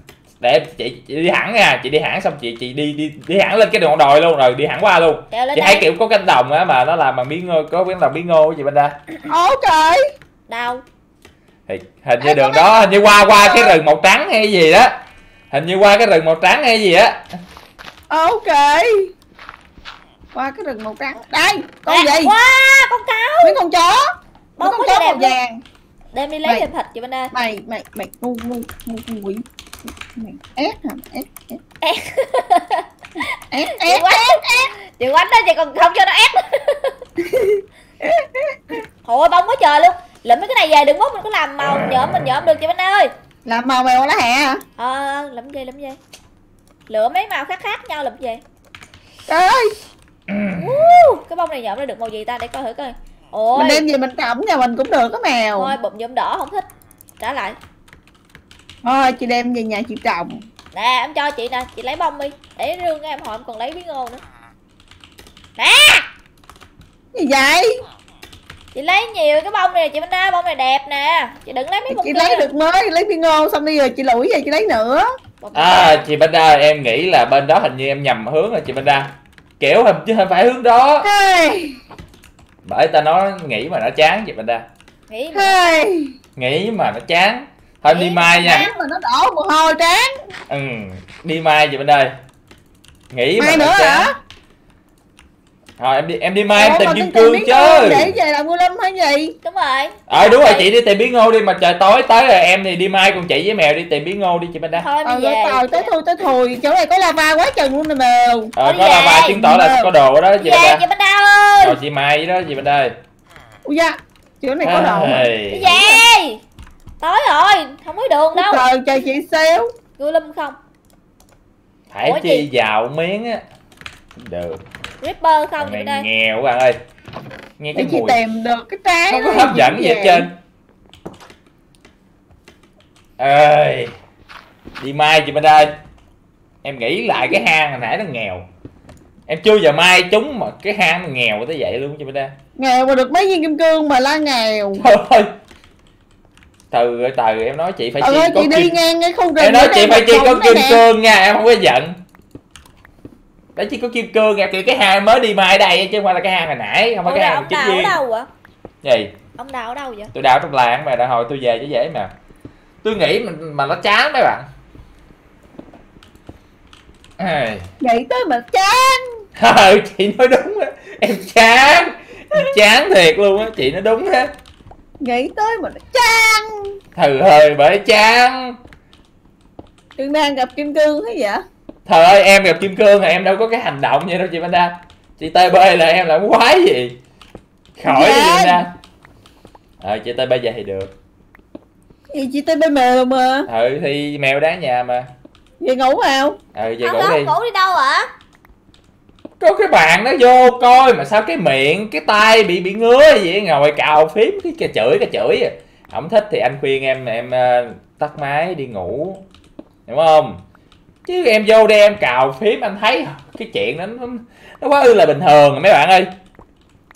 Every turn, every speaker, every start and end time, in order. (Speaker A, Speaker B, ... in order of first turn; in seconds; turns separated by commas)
Speaker A: 0.4-8.9, Speaker B: 5.3-5.9, Speaker C: 9.3-10.0, Speaker B: 10.5-10.8, Speaker A: 11.7-14.9, Speaker C: 12.2-12.7, Speaker C: 13.2-13.8, Speaker A: 15.5-17.2, Speaker C: 18.1-19.1, Speaker C: 20.3-22.3, Speaker B: 21.9-23.6, Speaker C: 23.4-24.1, Speaker B: 24.6-25.3, Speaker C: 24.6-25.6, Speaker B: 26.1-27.3, Speaker C: 27.3-29.4, Speaker C: 30.1-31.6, Speaker B: 31.8-37.0, Speaker C: 33.5-34.7, Speaker C: 37.2-38.8, Speaker B: 39.0-43.1, Speaker A: 41.6-42.5, Speaker C: 43.5-44.6, Speaker B: 44.8-46.0, Speaker B: 46.9-48.4, Speaker C: 49.3-49.8, Speaker A: 50.3-51.0, Speaker B: 50.5-53.8, Speaker C: 53.5-55.7, Speaker B: 55.6-56.6, Speaker B: 57.2-57.6, Speaker C: 58.8-60.4, Speaker B: 60.7-64.2, Speaker B: 65.6-66.0, Speaker C: 67.1-67.7, Speaker B: 68.8-72.5, Speaker C: 71.9-75.1, Speaker B: 75.4-76.1, Speaker A: 75.5-81.1, Speaker C: 81.0-81.7, Speaker A: 82.6-84.6, Speaker B: 85.1-85.9, Speaker C: 85.3-86.1, Speaker A: 86.4-88.7, Speaker C: 87.9-90.1, Speaker A: 90.5-92.1, Speaker A: 93.1-94.1, Speaker C: 93.4-94.1, Speaker A: 95.8-98.1, Speaker C: 96.5-99.3, Speaker B: 99.4-100.7, Speaker A: 100.1-104.9, Speaker B: 104.8-105.9, Speaker C: 105.0-108.5, Speaker A: 108.6-110.8, Speaker B: 108.6-109.4, Speaker C: 109.3-109.9, Speaker B: 110.4-111.8, Speaker A: 111.6-112.9, Speaker C: 113.7-116.0, Speaker A: 114.6-115.7, Speaker B: 115.5-116.4, Speaker B: 117.0-118.6, Speaker C: 118.3-119.6, Speaker B: 120.0-120.6, Speaker A: 121.9-123.4, Speaker B: 122.0-122.5, Speaker A: 124.2-124.6, Speaker B: 125.0-126.1, Speaker A: 125.6-126.8, Speaker A: 127.6-128.2, Speaker C: 127.8-130.3, Speaker A: 129.1-130.3, Speaker A: 133.2-133.9, Speaker A: 134.8-135.8, Speaker A: 136.6-138.4, Speaker A: 139.3-142.3, Speaker C: 142.6-144.8, Speaker A: 144.8-145.3, Speaker A: 146.7-148.7, Speaker C: 148.0-150.8, Speaker A: 149.4-152.0, Speaker A: 153.6-158.0, Speaker B: 157.1-158.3, Speaker A: 158.8-159.1, Speaker B: 159.4-160.1, Speaker A: 160.1-162.1, Speaker A: 162.8-164.5, Speaker A: 167.2-167.7, Speaker C: 167.8-169.0, Speaker A: 169.4-174.3, Speaker C: 175.0-176.8, Speaker A: 176.9-178.6, Speaker C: 180.0-181.4, Speaker A: 181.9-187.0, Speaker A: 187.8-188.7, Speaker C: 187.9-188.6, Speaker A: 189.8-190.9, Speaker C: 192.1-193.5, Speaker A: 193.5-195.1, Speaker C: 195.6-196.4, Speaker A: 196.6-197.3, Speaker B: 196.8-198.1, Speaker A: 199.4-209.2, Speaker A: 209.9-210.4, Speaker A: 211.0-216.1